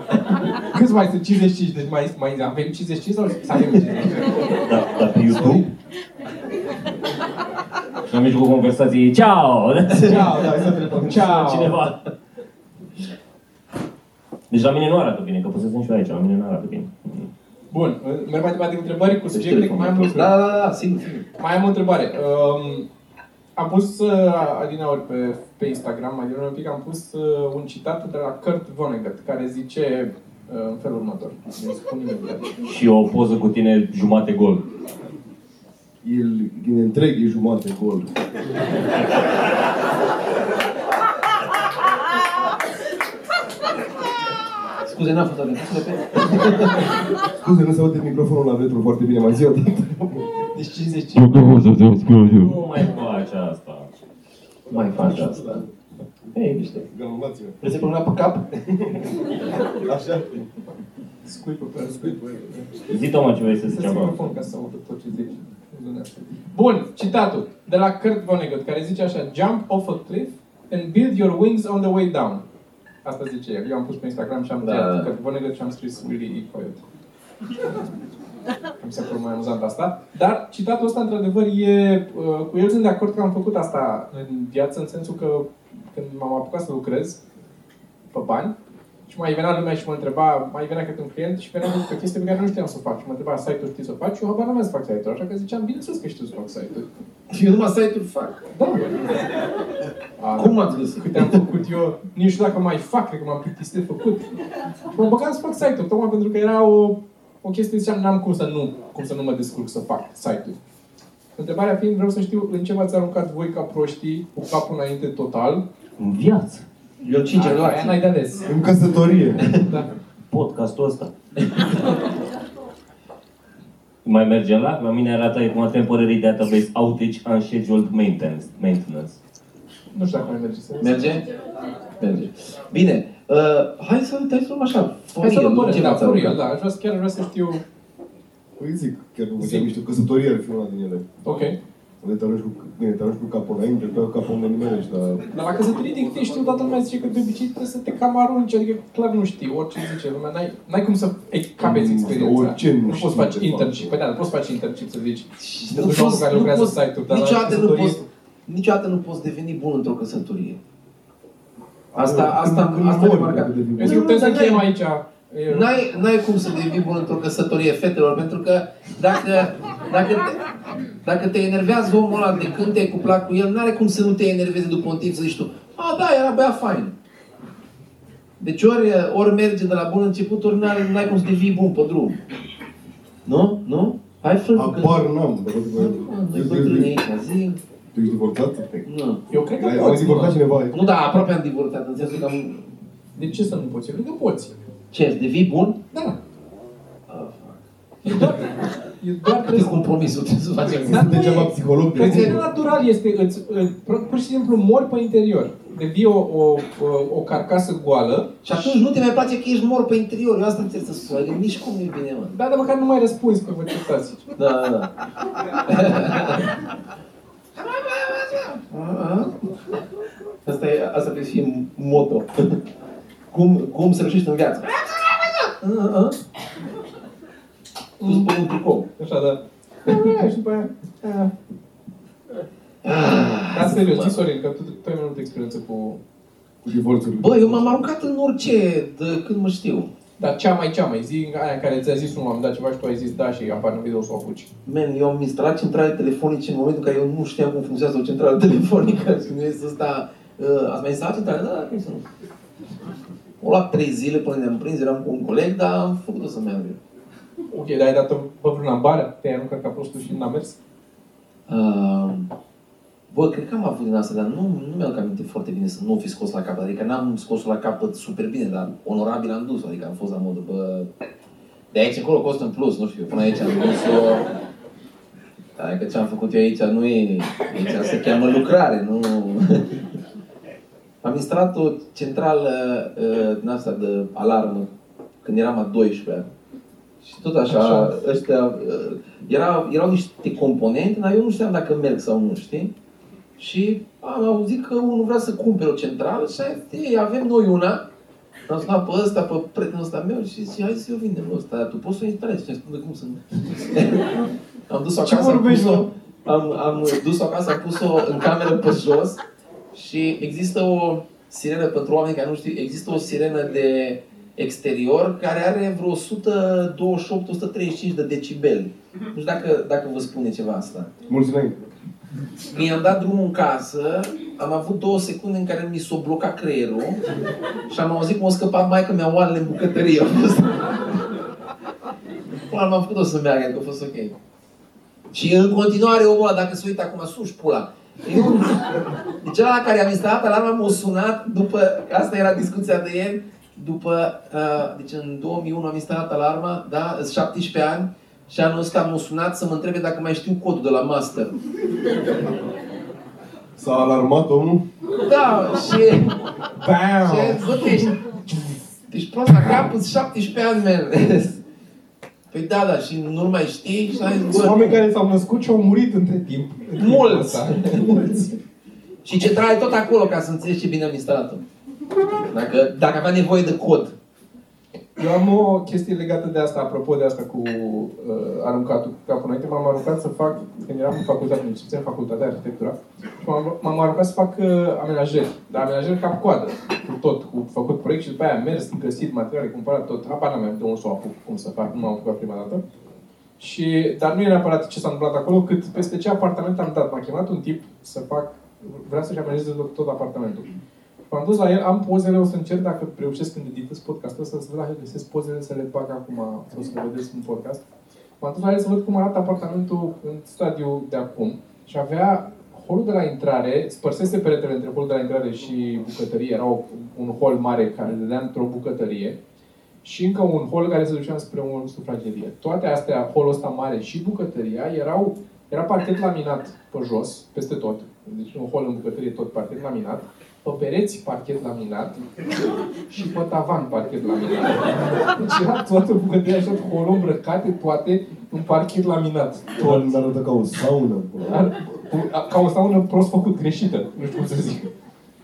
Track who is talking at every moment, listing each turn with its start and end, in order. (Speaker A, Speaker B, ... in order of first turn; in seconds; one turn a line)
Speaker A: 0.5-4.5
Speaker B: 4.6-5.6
Speaker A: 5.3-5.6
Speaker C: 5.3-5.6
Speaker C: 8.1-12.0
Speaker A: 10.0-11.8
Speaker D: 10.3-11.2
Speaker C: 14.5-17.3
Speaker A: 17.7-20.3
Speaker E: 19.3-21.2
Speaker A: 21.4-22.9
Speaker A: 23.6-32.5
Speaker C: 32.6-34.6
Speaker D: 36.0-38.1
Speaker E: 44.8-46.9
Speaker D: 47.4-50.3
Speaker A: 50.5-51.5
Speaker B: 51.1-52.6
Speaker C: 52.2-53.9
Speaker D: 54.6-55.7
Speaker E: 54.7-55.6
Speaker E: 56.3-56.9
Speaker D: 56.9-57.6
Speaker E: 57.6-58.5
Speaker D: 58.8-59.0
Speaker D: 59.7-60.5
Speaker A: 61.2-62.7
Speaker D: 61.8-62.6
Speaker C: 62.9-64.3
Speaker A: 63.6-72.4
Speaker A: 73.0-76.8
Speaker E: 74.6-75.1
Speaker A: 78.8-87.2
Speaker A: 88.1-88.5
Speaker A: 89.1-96.9
Speaker E: 97.3-98.4
Speaker A: 98.5-99.0
Speaker A: 100.2-104.3
Speaker E: 100.3-101.4
Speaker A: 104.9-110.6
Speaker A: 111.3-115.6
Speaker C: 116.0-116.6
Speaker E: 117.0-118.0
Speaker A: 117.3-118.5
Speaker D: 118.4-119.5
Speaker A: 119.5-119.9
Speaker C: 120.3-120.8
Speaker B: 120.3-121.1
Speaker C: 124.0-129.2
Speaker A: 129.9-131.2
Speaker E: 130.8-131.2
Speaker E: 132.0-136.4
Speaker A: 135.2-137.6
Speaker D: 138.6-141.1
Speaker A: 139.4-139.7
Speaker A: 141.2-141.6
Speaker D: 142.0-145.2
Speaker A: 145.3-158.0
Speaker D: 151.6-153.9
Speaker E: 155.4-160.6
Speaker D: 161.9-164.1
Speaker E: 161.9-164.6
Speaker A: 163.8-165.9
Speaker E: 165.5-170.4
Speaker E: 171.0-176.9
Speaker E: 178.4-182.2
Speaker E: 183.2-185.0
Speaker D: 184.5-187.0
Speaker E: 185.8-187.6
Speaker D: 187.9-188.8
Speaker E: 188.8-189.2
Speaker A: 189.3-190.4
Speaker D: 189.6-190.8
Speaker E: 190.7-192.7
Speaker A: 193.2-194.5
Speaker E: 194.9-195.8
Speaker A: 195.9-196.2
Speaker E: 197.1-198.5
Speaker A: 198.0-199.9
Speaker E: 199.4-201.1
Speaker A: 200.7-208.8
Speaker D: 200.8-202.4
Speaker E: 202.0-202.3
Speaker E: 208.4-212.3
Speaker A: 212.3-214.2
Speaker E: 214.4-214.9
Speaker E: 215.6-216.5
Speaker E: 217.5-219.5
Speaker E: 220.4-222.6
Speaker E: 223.3-226.2
Speaker A: 228.0-228.3
Speaker E: 228.0-228.9
Speaker A: 229.0-231.3
Speaker E: 232.8-234.1
Speaker A: 233.3-236.0
Speaker D: 236.6-237.9
Speaker E: 237.2-239.9
Speaker A: 240.2-244.5
Speaker E: 244.6-252.0
Speaker E: 253.4-256.8
Speaker A: 257.5-260.6
Speaker E: 261.5-262.3
Speaker E: 263.1-270.9
Speaker E: 271.7-274.2
Speaker E: 275.6-279.8
Speaker E: 281.0-284.7
Speaker E: 285.2-286.3
Speaker E: 287.0-292.7
Speaker A: 287.5-287.9
Speaker E: 293.4-297.8
Speaker E: 298.5-304.1
Speaker E: 304.7-309.2
Speaker D: 305.0-305.8
Speaker E: 309.7-320.9
Speaker D: 321.1-321.6
Speaker E: 322.5-327.0
Speaker E: 327.7-330.8
Speaker E: 332.5-334.1
Speaker E: 335.1-351.4
Speaker D: 353.6-354.6
Speaker E: 355.0-356.1
Speaker A: 356.6-357.9
Speaker E: 357.0-358.0
Speaker E: 358.9-361.4
Speaker E: 362.3-364.8
Speaker A: 364.3-368.3
Speaker E: 366.8-368.2
Speaker E: 369.0-371.4
Speaker E: 372.3-373.9
Speaker A: 375.0-392.6
Speaker A: 393.4-400.5
Speaker A: 401.1-407.6
Speaker A: 408.2-419.2
Speaker A: 419.8-432.0
Speaker A: 432.9-440.0
Speaker D: 439.6-441.5
Speaker A: 441.3-444.7